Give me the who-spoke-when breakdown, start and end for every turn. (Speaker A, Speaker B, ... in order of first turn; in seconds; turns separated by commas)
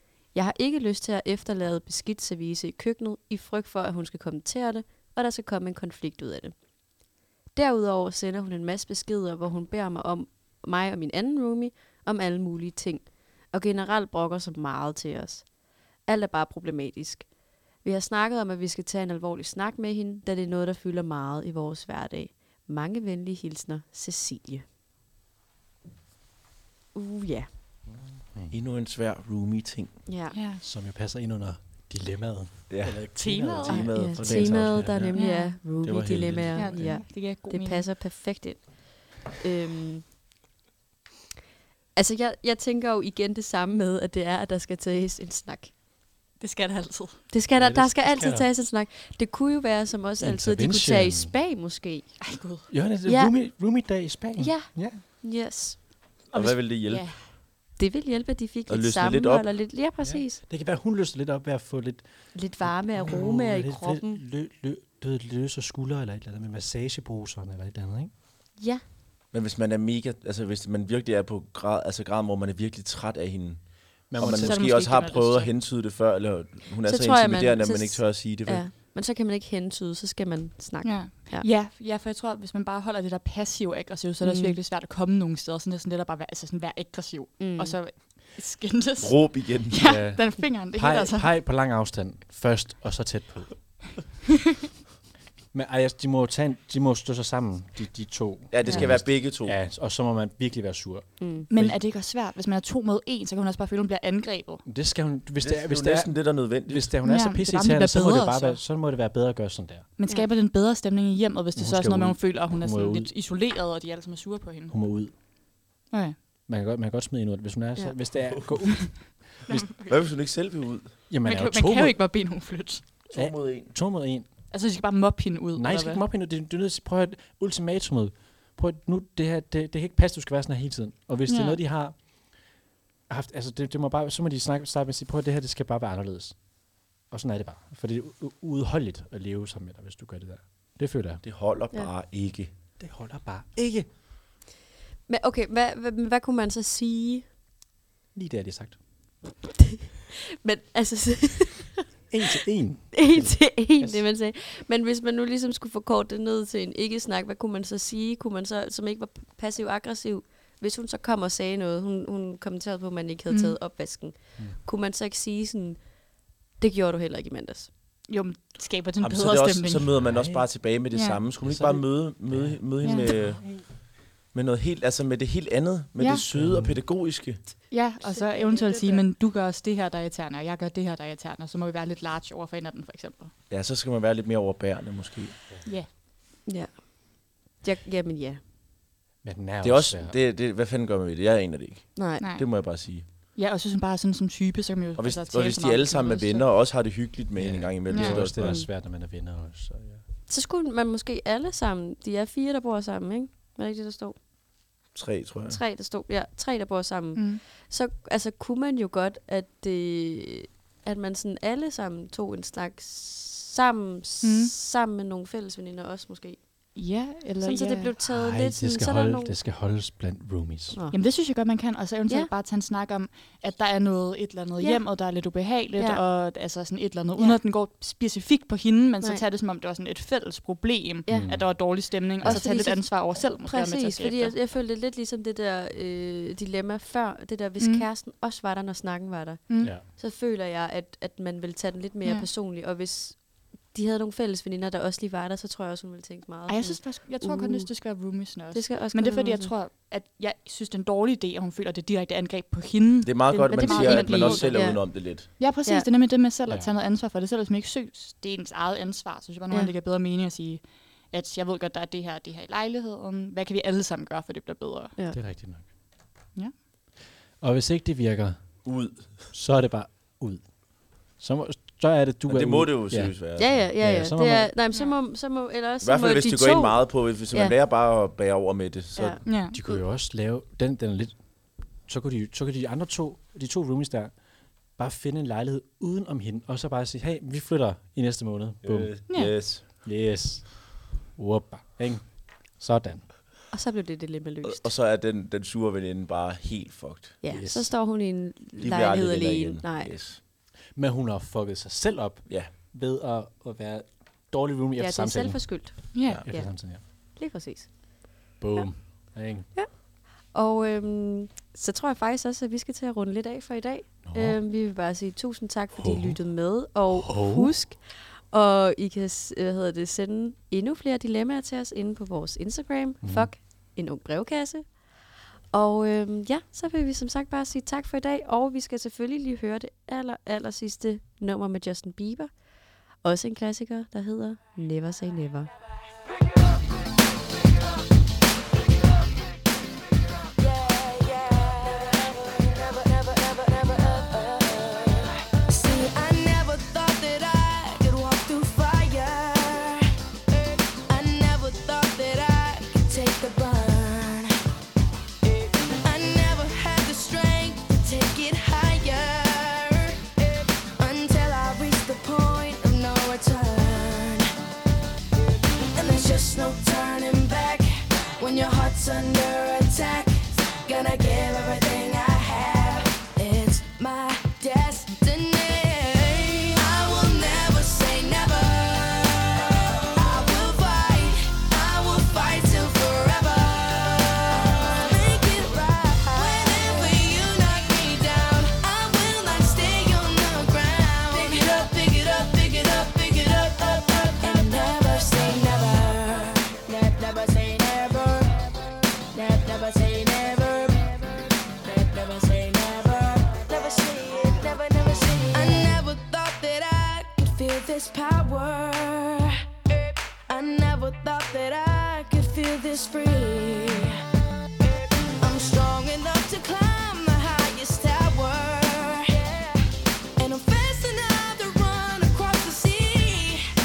Speaker A: 0.3-6.5, Speaker A: 7.5-24.6, Speaker A: 26.9-27.5, Speaker B: 27.9-28.5, Speaker C: 28.5-30.0, Speaker A: 30.1-30.4, Speaker D: 30.3-30.6, Speaker B: 30.6-35.1, Speaker C: 32.7-35.2, Speaker D: 33.1-33.9, Speaker A: 33.7-40.0, Speaker D: 35.1-35.5, Speaker C: 35.8-37.0, Speaker D: 36.5-37.8, Speaker A: 41.9-45.7, Speaker D: 46.4-47.2, Speaker A: 47.3-52.3, Speaker B: 47.5-48.5, Speaker B: 50.2-51.3, Speaker D: 52.2-52.7, Speaker B: 52.7-55.0, Speaker A: 53.0-53.3, Speaker A: 54.4-54.7, Speaker A: 55.2-55.8, Speaker C: 56.3-57.3, Speaker D: 56.9-57.2, Speaker A: 57.8-60.4, Speaker C: 58.7-59.5, Speaker B: 60.0-68.1, Speaker A: 62.3-64.2, Speaker A: 68.6-68.8, Speaker C: 69.3-78.6, Speaker B: 74.1-74.7, Speaker D: 74.2-75.5, Speaker A: 76.8-81.5, Speaker D: 80.8-91.3, Speaker A: 84.2-84.6, Speaker A: 87.4-87.8, Speaker C: 89.0-89.9, Speaker B: 89.8-94.0, Speaker B: 95.5-101.8, Speaker C: 98.5-99.6, Speaker A: 101.2-101.5, Speaker D: 101.5-104.6, Speaker B: 104.7-109.9, Speaker C: 105.4-106.9, Speaker D: 107.0-108.6, Speaker D: 110.0-114.8, Speaker B: 111.5-113.1, Speaker B: 114.7-115.1, Speaker D: 115.9-116.2, Speaker B: 116.5-119.4, Speaker D: 119.5-120.1, Speaker C: 119.5-121.1, Speaker B: 121.1-122.0, Speaker D: 121.2-122.9, Speaker C: 123.1-123.7, Speaker B: 123.1-124.3, Speaker D: 124.5-126.0, Speaker B: 125.5-132.6, Speaker D: 131.3-131.6, Speaker B: 133.1-141.2, Speaker C: 141.2-142.5, Speaker B: 142.8-143.9, Speaker A: 145.1-147.3, Speaker B: 148.1-148.8, Speaker A: 149.6-151.9, Speaker B: 152.1-154.0, Speaker A: 152.9-166.1, Speaker D: 163.3-163.6, Speaker A: 166.6-167.7, Speaker D: 168.1-169.9, Speaker C: 169.0-177.4, Speaker B: 169.9-170.5, Speaker D: 170.9-171.2, Speaker B: 171.4-173.6, Speaker D: 172.8-173.1, Speaker D: 176.0-176.2, Speaker B: 176.3-176.8, Speaker D: 177.7-183.3, Speaker A: 178.0-179.0, Speaker C: 183.5-185.4, Speaker A: 186.4-188.4, Speaker B: 189.2-190.2, Speaker C: 189.6-193.1, Speaker A: 191.9-192.2, Speaker D: 192.2-192.4, Speaker D: 193.3-196.5, Speaker C: 195.0-198.6, Speaker B: 197.3-200.0, Speaker D: 197.9-198.2, Speaker A: 198.4-198.7, Speaker A: 200.3-204.2, Speaker C: 204.9-205.6, Speaker A: 205.5-216.8, Speaker D: 207.1-207.4, Speaker D: 214.2-214.5, Speaker D: 216.7-217.9, Speaker A: 217.4-219.3, Speaker B: 218.0-220.8, Speaker A: 220.7-221.0, Speaker D: 220.9-234.3, Speaker A: 224.6-224.9, Speaker A: 225.8-226.0, Speaker A: 231.1-247.8, Speaker B: 231.1-231.7, Speaker D: 237.6-237.8, Speaker D: 239.5-239.7, Speaker B: 239.6-239.8, Speaker D: 242.0-242.3, Speaker D: 246.5-264.9, Speaker A: 248.5-249.5, Speaker C: 253.0-255.3, Speaker A: 253.4-255.9, Speaker B: 256.5-256.7, Speaker B: 265.1-265.7, Speaker B: 267.4-274.5, Speaker C: 268.6-269.3, Speaker C: 272.3-273.5, Speaker A: 273.4-277.5, Speaker D: 274.7-275.0, Speaker C: 275.8-279.2, Speaker A: 278.9-279.8, Speaker D: 279.2-279.6, Speaker B: 279.5-284.1, Speaker B: 284.7-293.1, Speaker C: 288.6-289.6, Speaker D: 289.1-289.3, Speaker A: 293.5-294.7, Speaker C: 294.4-297.2, Speaker A: 297.2-299.9, Speaker B: 297.3-297.7, Speaker C: 298.6-300.2, Speaker B: 300.7-306.8, Speaker A: 304.8-335.5, Speaker D: 305.9-306.2, Speaker B: 308.4-309.5, Speaker B: 314.0-314.4, Speaker B: 315.7-316.2, Speaker B: 316.9-317.5, Speaker B: 323.0-323.3, Speaker E: 340.4-354.3, Speaker E: 355.2-364.3, Speaker E: 365.7-398.5, Speaker E: 399.1-401.0, Speaker E: 401.6-414.0, Speaker E: 415.2-419.6, Speaker E: 420.2-423.4